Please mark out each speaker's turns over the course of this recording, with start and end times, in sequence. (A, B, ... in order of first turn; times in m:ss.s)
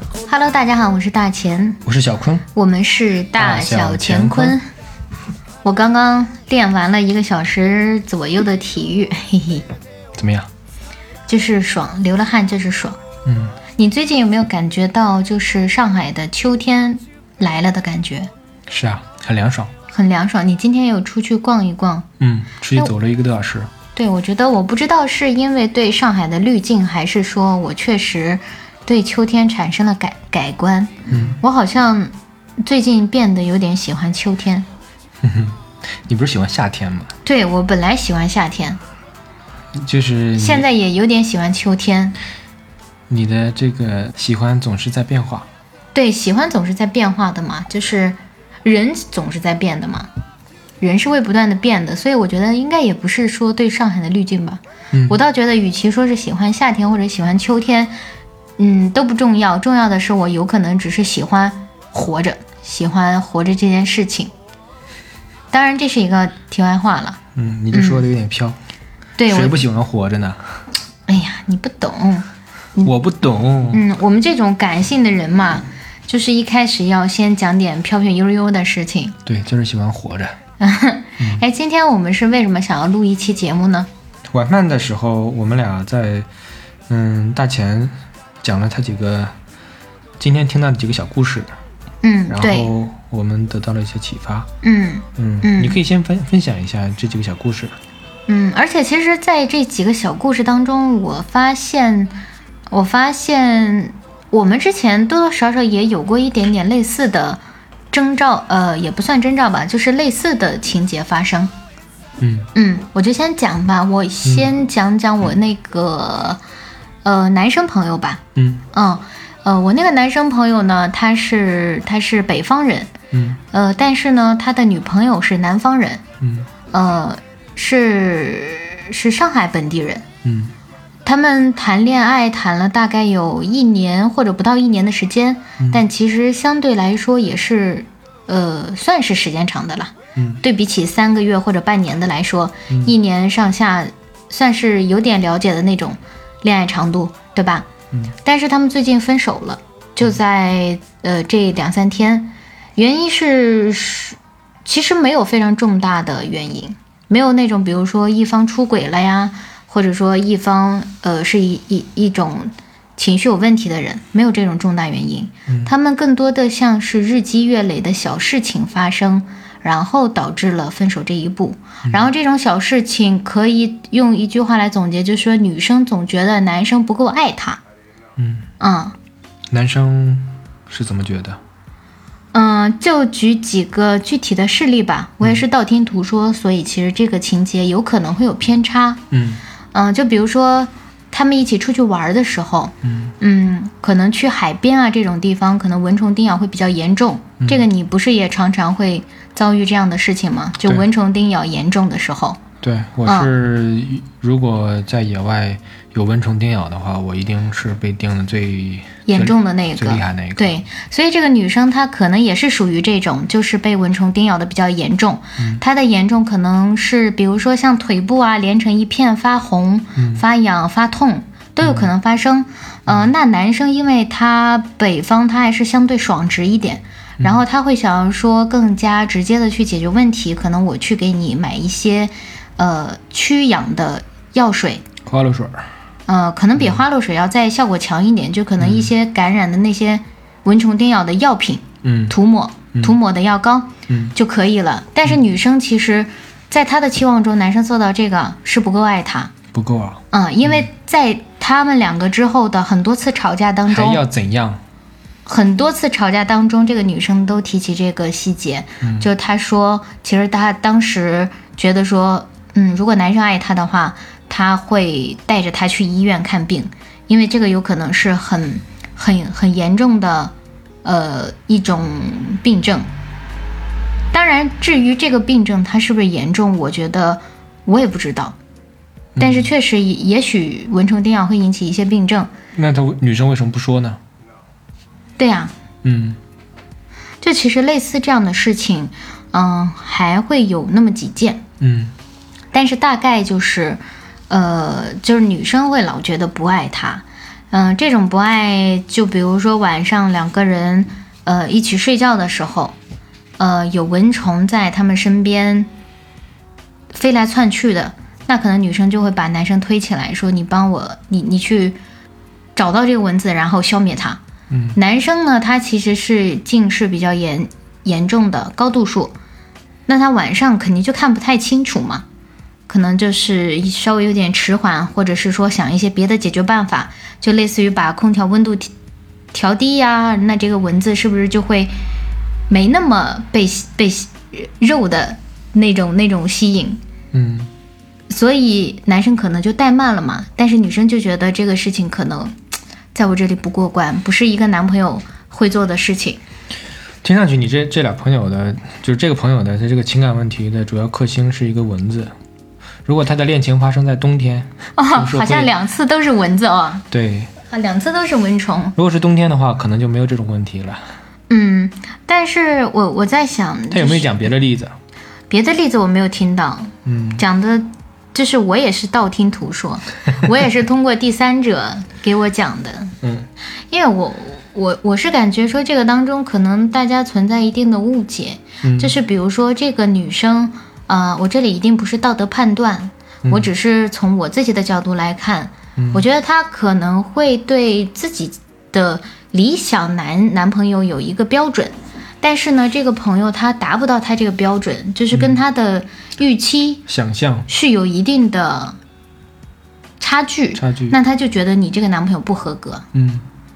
0:00.3-0:01.8 A
0:01.8-0:02.5 B
0:02.5-0:04.6 A
0:03.3-0:04.6 B
0:05.6-0:09.7 A
0:10.1-0:10.5 B
0:11.3-0:13.0 A
0:13.2-0:13.6 B
0:13.8-0:18.3 A
0:18.7-0:19.7 B
0:19.9-0:22.1 A
0:22.2-0:23.7 B
0:23.9-0:34.7 A
0:31.1-0:31.4 B
0:35.2-0:37.1 B
0:37.2-0:38.8 A
0:39.7-0:40.6 B
0:40.4-0:42.2 A
0:43.1-0:45.5 B
0:45.9-0:50.1 A
0:50.8-0:57.9 A
0:54.9-0:55.2 B
0:58.6-1:04.3 A
1:05.5-1:07.2 A
1:07.3-1:08.6 B
1:07.7-1:08.0 A
1:09.2-1:09.6 A
1:09.3-1:10.4 B
1:11.1-1:12.9 A
1:12.8-1:13.8 B
1:13.7-1:19.2 A
1:19.2-1:20.4 B
1:20.6-1:23.9 A
1:24.3-1:26.3 B
1:26.9-1:29.3 B
1:30.2-1:31.5 B
1:32.0-1:32.7 A
1:32.3-1:34.5 B
1:34.6-1:35.8 A
1:35.2-1:37.8 B
1:38.3-1:42.2 A
1:42.7-1:47.4 A
1:47.9-1:51.5 A
1:52.2-1:52.5 B
1:52.5-1:56.4 A
1:57.0-2:02.9 A
1:58.4-1:58.6 B
2:03.1-2:03.4 B
2:03.5-2:06.0 A
2:06.2-2:06.5 B
2:06.7-2:10.0 A
2:10.2-2:10.5 B
2:11.0-2:27.7 A
2:20.2-2:20.4 B
2:28.2-2:57.6 A
2:58.2-2:58.4 B
2:58.6-2:58.9 A
2:59.5-3:01.4 B
3:02.3-3:09.0 A
3:09.1-3:09.4 B
3:09.7-3:22.4 A
3:12.8-3:13.1 B
3:22.6-3:30.6 B
3:29.0-3:54.8 A
3:40.0-3:40.2 B
3:41.6-3:41.9 B
3:55.0-3:55.7 B
3:56.1-4:09.3 A
3:58.6-3:58.9 B
4:01.8-4:02.1 B
4:03.9-4:04.1 B
4:09.5-4:10.7 B
4:10.1-4:14.0 A
4:13.7-4:14.6 B
4:15.2-4:32.9 A
4:18.8-4:19.1 B
4:34.1-4:38.4 A
4:39.2-4:39.5 B
4:39.2-4:42.3 A
4:42.5-4:44.0 B
4:45.2-4:45.5 A
4:45.8-4:46.2 B
4:47.2-4:51.4 A
4:51.6-4:51.9 B
4:52.5-5:02.8 A
5:03.4-5:05.7 A
5:06.9-5:11.8 A
5:12.6-5:14.2 A
5:14.5-5:14.8 B
5:14.7-5:19.1 A
5:19.9-5:22.0 A
5:22.7-5:28.7 A
5:29.3-5:31.7 A
5:32.5-5:36.8 A
5:37.1-5:37.5 B
5:38.1-5:42.3 A
5:42.9-5:46.2 A
5:47.0-5:52.1 B
5:52.8-5:55.5 B
5:54.8-5:56.9 A
5:56.9-5:57.3 B
5:57.5-5:58.7 A
5:58.8-6:00.8 B
6:01.3-6:04.2 A
6:03.7-6:04.7 B
6:05.3-6:13.0 A
6:06.8-6:07.2 B
6:13.0-6:13.3 B
6:13.7-6:36.8 A
6:18.6-6:18.9 B
6:25.8-6:26.0 B
6:35.1-6:35.4 B
6:36.9-6:37.5 B
6:37.5-6:38.8 A
6:40.0-6:42.9 A
6:40.6-6:41.0 B
6:42.9-6:43.2 B